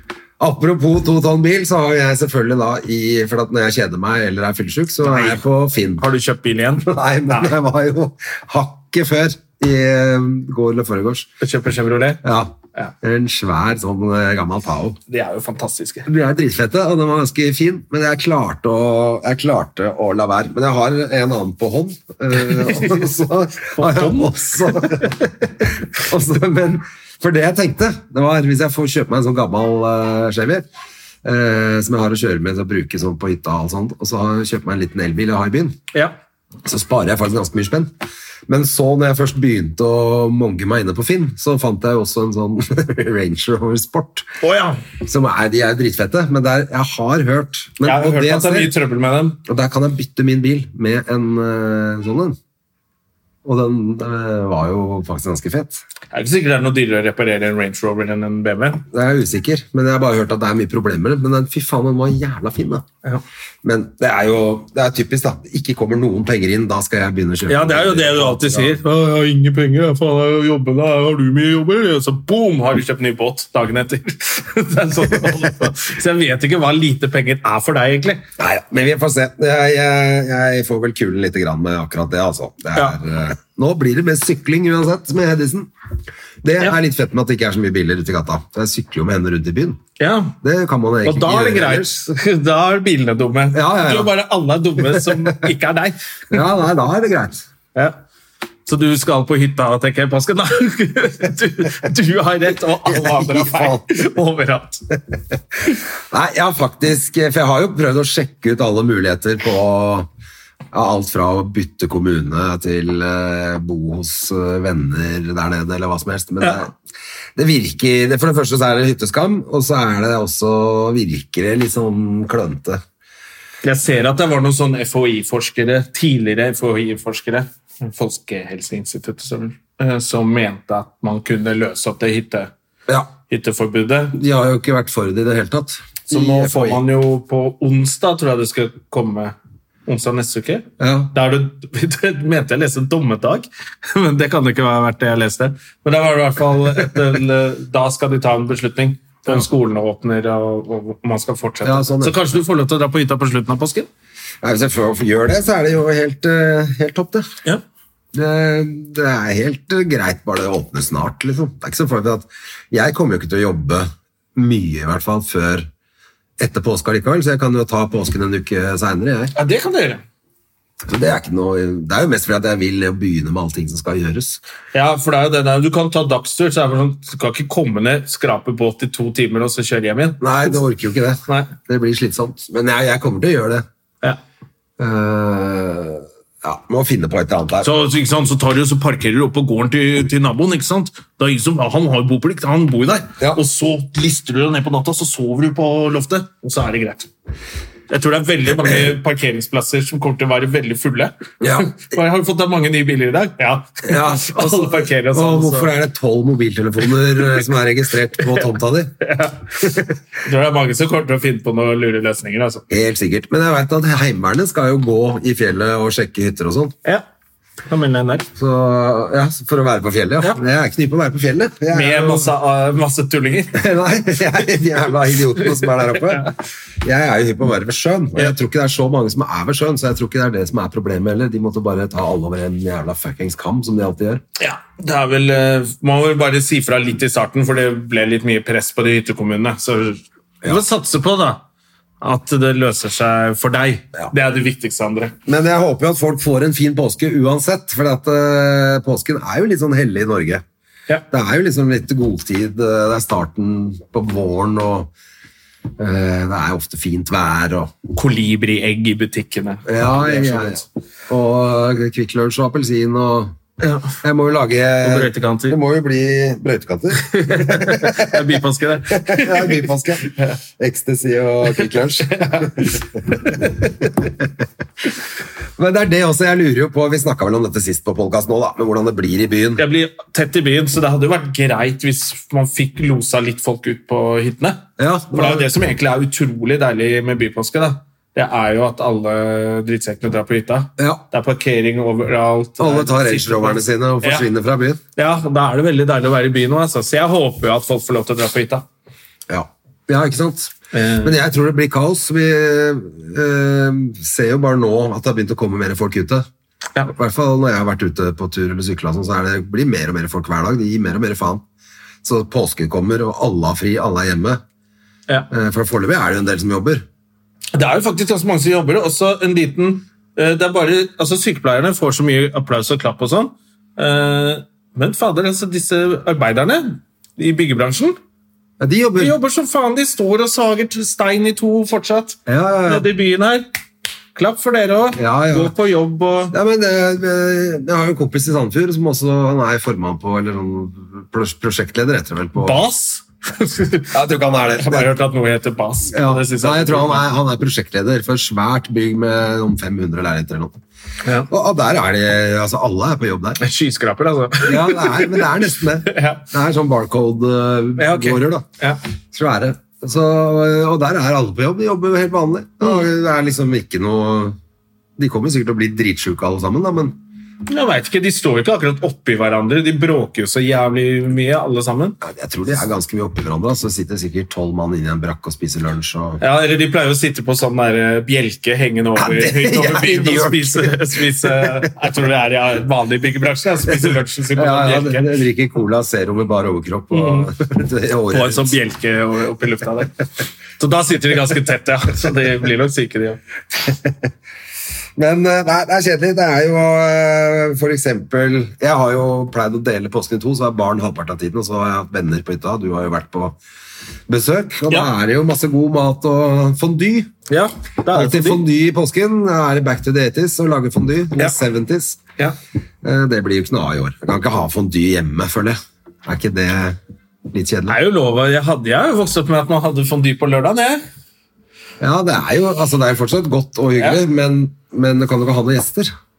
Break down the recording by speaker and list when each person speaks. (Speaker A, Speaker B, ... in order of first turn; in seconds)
Speaker A: 0.4-6.0, 6.8-11.3, 12.2-15.0, 16.1-30.6, 31.2-35.8, 36.6-37.9, 38.5-44.3, 45.0-48.7, 49.5-52.4, 53.4-55.8, 58.9-62.9, 63.6-68.8, 78.4-85.7, 86.4-89.8, 90.4-92.1, 93.5-94.1, 94.8-95.4, 96.3-97.4, 102.8-103.9, 106.1-110.1, 110.7-116.7, 117.3-122.8, 134.1-136.8, 140.8-141.1, 151.6-152.2, 154.4-157.3, 158.1-165.7, 166.4-169.3, 170.8-174.4, 180.2-183.6, 184.8-187.7, 198.6-198.9, 201.4-201.7, 203.8-208.9, 212.7-216.7, 218.3-222.3, 223.5-226.3, 226.8-234.2, 245.2-250.4, 251.1-254.9, 255.8-257.7, 259.7-263.3, 264.0-268.2, 268.9-274.3, 275.6-279.6, 284.8-285.5, 290.8-291.0, 292.6-294.8, 299.3-306.3, 306.9-311.4, 312.0-314.4, 315.3-316.8, 328.6-329.1, 332.3-332.9, 334.9-335.5, 336.3-342.6, 343.9-344.9, 345.9-350.6, 351.3-353.4, 354.4-358.4, 359.1-364.4, 365.0-367.0, 372.0-376.2, 378.9-381.7, 383.7-388.6, 393.7-393.9, 394.9-403.4, 404.1-407.1, 407.9-412.0, 412.8-416.8, 417.3-417.8, 421.8-425.9
Speaker B: 5.0-5.4, 6.0-7.5, 11.4-12.2, 15.1-16.1, 22.3-25.1, 44.4-44.8, 47.8-49.4, 56.1-58.8, 67.5-78.2, 90.0-90.3, 91.0-96.4, 98.7-104.8, 123.6-132.5, 133.3-134.2, 136.1-139.3, 139.8-153.9, 169.3-170.0, 174.7-180.6, 187.6-197.1, 197.9-205.7, 209.0-209.5, 210.2-212.6, 217.7-218.3, 221.7-223.6, 234.4-241.4, 242.0-245.1, 257.9-260.6, 263.6-263.9, 264.8-265.6, 267.1-270.3, 272.1-273.5, 279.6-294.3, 294.9-298.6, 300.7-301.2, 317.5-328.0, 328.9-333.5, 334.1-336.3, 342.4-343.9, 344.6-347.1, 351.0-351.3, 353.4-355.3, 355.9-356.3, 357.8-358.8, 367.5-372.0, 376.2-385.1, 386.9-387.3, 388.1-390.0, 390.6-393.2, 407.3-408.4, 417.7-420.8, 423.8-424.0